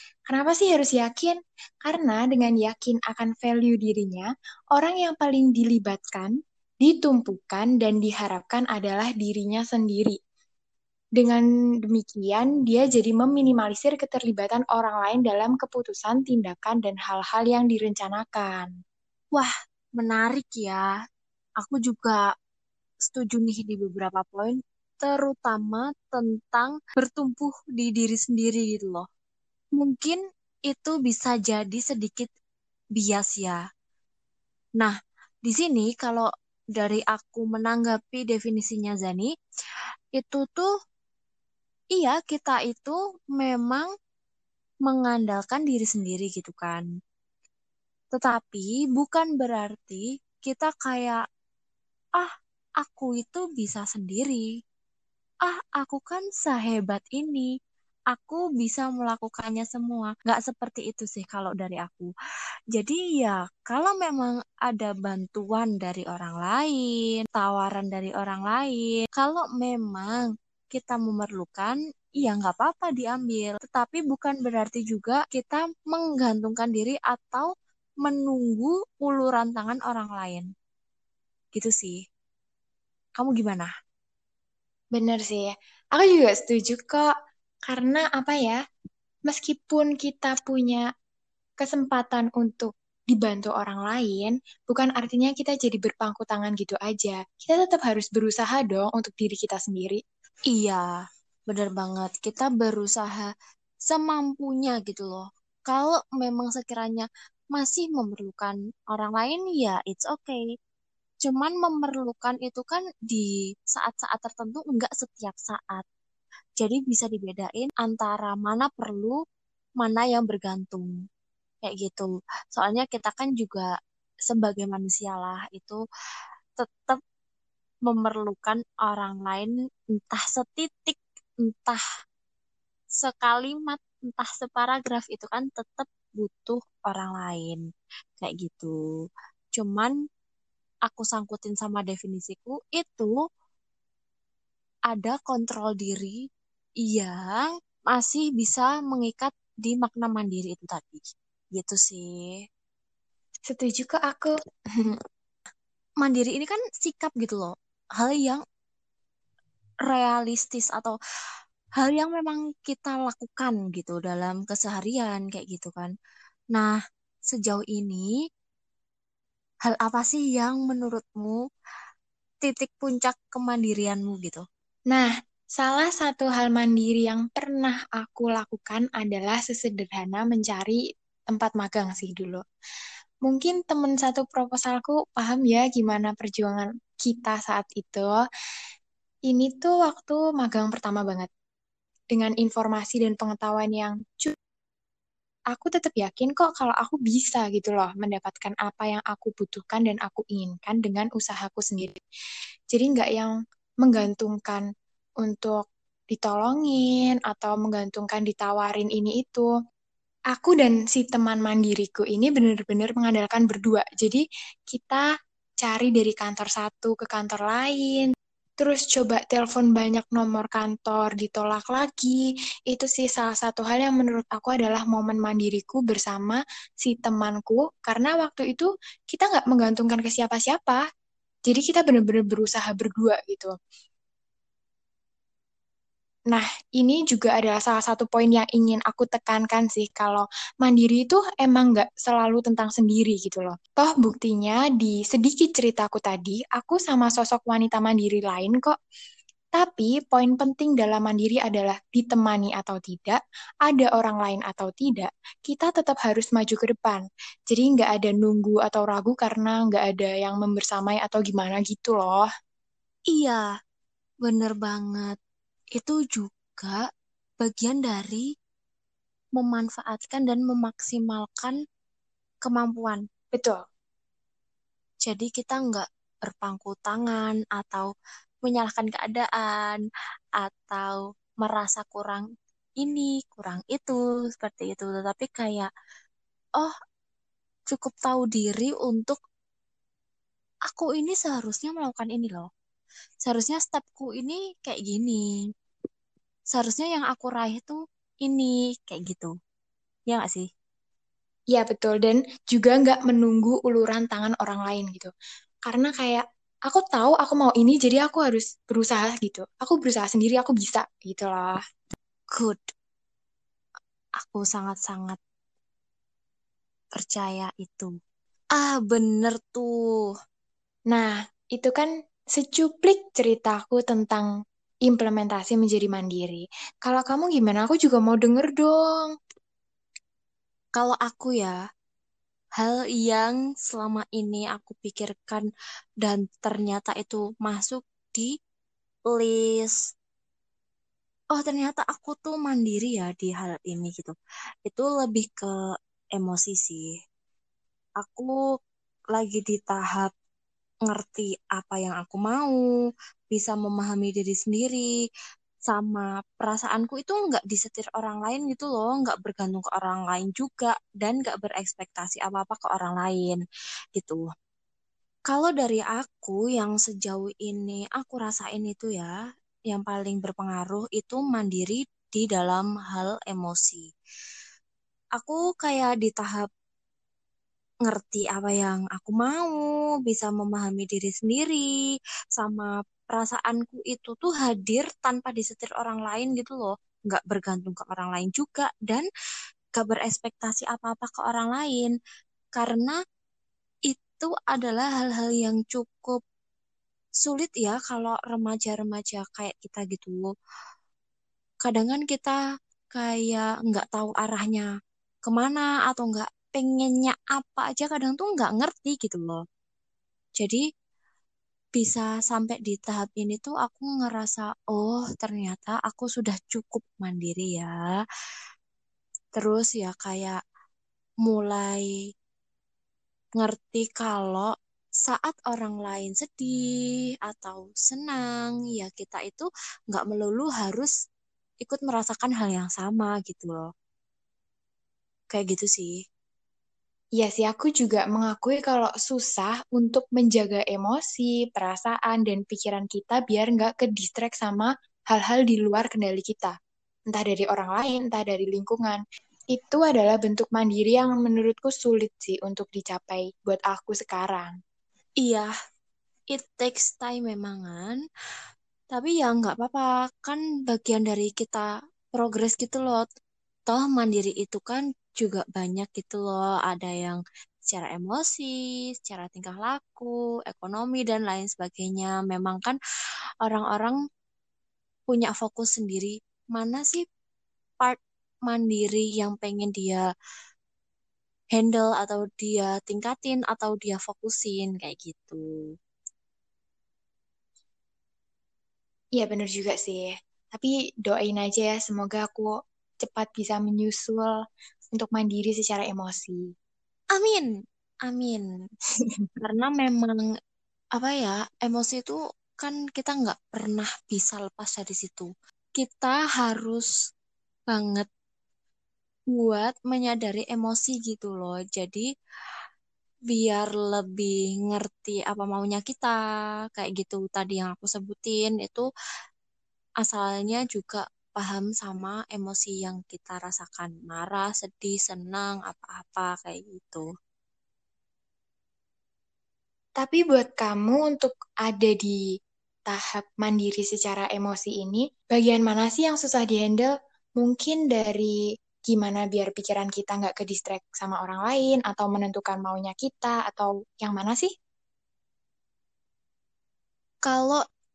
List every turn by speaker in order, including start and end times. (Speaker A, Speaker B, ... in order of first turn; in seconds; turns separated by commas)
Speaker A: 0.3-10.2, Speaker A: 11.2-18.7, Speaker B: 19.4-20.8, Speaker B: 21.6-22.2, Speaker B: 23.1-29.1, Speaker B: 29.8-32.3, Speaker B: 33.0-33.6, Speaker B: 34.8-39.3, Speaker B: 40.2-40.7, Speaker B: 42.0-43.9, Speaker B: 44.9-46.9, Speaker B: 48.1-51.2, Speaker B: 52.8-54.5, Speaker B: 55.5-57.5, Speaker B: 58.1-62.1, Speaker B: 62.8-77.5, Speaker B: 78.0-80.5, Speaker B: 81.5-82.0, Speaker B: 83.2-83.7, Speaker A: 85.0-87.1, Speaker A: 87.7-88.6, Speaker A: 89.3-90.8, Speaker A: 91.6-100.0, Speaker B: 100.5-100.9, Speaker B: 101.5-103.3, Speaker B: 103.9-110.4, Speaker B: 111.2-115.9, Speaker B: 116.6-119.2, Speaker B: 119.8-120.9, Speaker B: 121.6-123.7, Speaker B: 124.3-125.8, Speaker B: 126.6-127.0, Speaker B: 127.9-131.8, Speaker B: 133.0-137.6, Speaker B: 138.2-138.8, Speaker B: 139.6-139.9, Speaker B: 140.9-143.2, Speaker B: 144.9-146.2, Speaker B: 146.9-152.3, Speaker A: 153.5-155.0, Speaker B: 156.0-158.4, Speaker B: 159.9-160.9, Speaker B: 161.8-165.9, Speaker B: 167.3-168.1, Speaker B: 169.7-171.4, Speaker B: 172.4-174.4, Speaker A: 174.9-182.4, Speaker A: 183.3-188.1, Speaker A: 189.3-191.3, Speaker A: 192.1-194.3, Speaker A: 195.5-202.0, Speaker A: 202.7-203.3, Speaker A: 203.8-204.6, Speaker A: 205.2-209.5, Speaker A: 210.3-215.0, Speaker A: 215.6-230.8, Speaker A: 231.5-233.5, Speaker A: 236.3-248.8, Speaker A: 249.6-262.3, Speaker B: 263.1-263.4, Speaker B: 264.2-265.2, Speaker B: 265.8-266.8, Speaker B: 267.4-268.3, Speaker B: 269.4-271.6, Speaker B: 272.4-273.0, Speaker A: 273.3-273.6, Speaker B: 275.1-277.9, Speaker B: 278.4-279.8, Speaker B: 280.4-282.2, Speaker B: 282.8-285.7, Speaker B: 287.7-289.2, Speaker B: 290.7-292.5, Speaker B: 293.2-295.2, Speaker B: 296.5-299.3, Speaker B: 300.1-300.5, Speaker A: 301.5-305.1, Speaker A: 305.7-311.6, Speaker B: 312.3-312.6, Speaker B: 314.2-315.2, Speaker B: 317.0-317.9, Speaker B: 318.6-319.7, Speaker A: 320.9-324.3, Speaker A: 324.9-329.1, Speaker B: 330.8-331.6, Speaker B: 332.6-335.5, Speaker B: 336.0-338.3, Speaker B: 339.1-339.8, Speaker B: 341.3-344.1, Speaker B: 344.7-345.5, Speaker B: 346.2-346.9, Speaker B: 348.0-348.4, Speaker B: 349.1-350.1, Speaker B: 350.9-352.6, Speaker B: 353.3-354.9, Speaker B: 355.7-363.4, Speaker B: 364.0-364.2, Speaker B: 365.3-369.1, Speaker B: 369.7-373.9, Speaker B: 375.2-376.5, Speaker B: 377.9-381.7, Speaker B: 382.4-389.1, Speaker B: 389.8-391.9, Speaker B: 392.6-393.0, Speaker B: 393.9-396.2, Speaker B: 397.2-400.3, Speaker B: 401.6-402.4, Speaker B: 402.9-404.7, Speaker B: 405.2-409.4, Speaker B: 411.8-417.7, Speaker B: 419.4-420.4, Speaker B: 421.2-421.9, Speaker B: 423.4-424.5, Speaker B: 425.1-426.7, Speaker B: 427.2-430.9, Speaker B: 431.6-433.7, Speaker B: 435.3-435.9, Speaker A: 437.2-446.5, Speaker A: 447.1-449.0, Speaker A: 449.5-454.5, Speaker B: 455.2-455.5, Speaker B: 456.3-458.0, Speaker B: 458.9-463.1, Speaker B: 463.7-472.8, Speaker B: 473.4-474.0, Speaker B: 475.1-477.0, Speaker B: 477.8-480.0, Speaker B: 481.5-485.4, Speaker A: 489.2-492.5, Speaker A: 493.0-494.3, Speaker A: 494.9-496.4, Speaker B: 497.1-497.5, Speaker B: 498.1-498.5, Speaker B: 499.4-500.2, Speaker B: 501.0-506.9, Speaker B: 507.7-508.1, Speaker B: 509.3-512.1, Speaker B: 513.3-516.2, Speaker B: 516.7-518.9, Speaker B: 520.0-527.0, Speaker A: 530.0-532.2, Speaker A: 532.9-538.4, Speaker A: 538.9-544.5, Speaker B: 547.3-547.6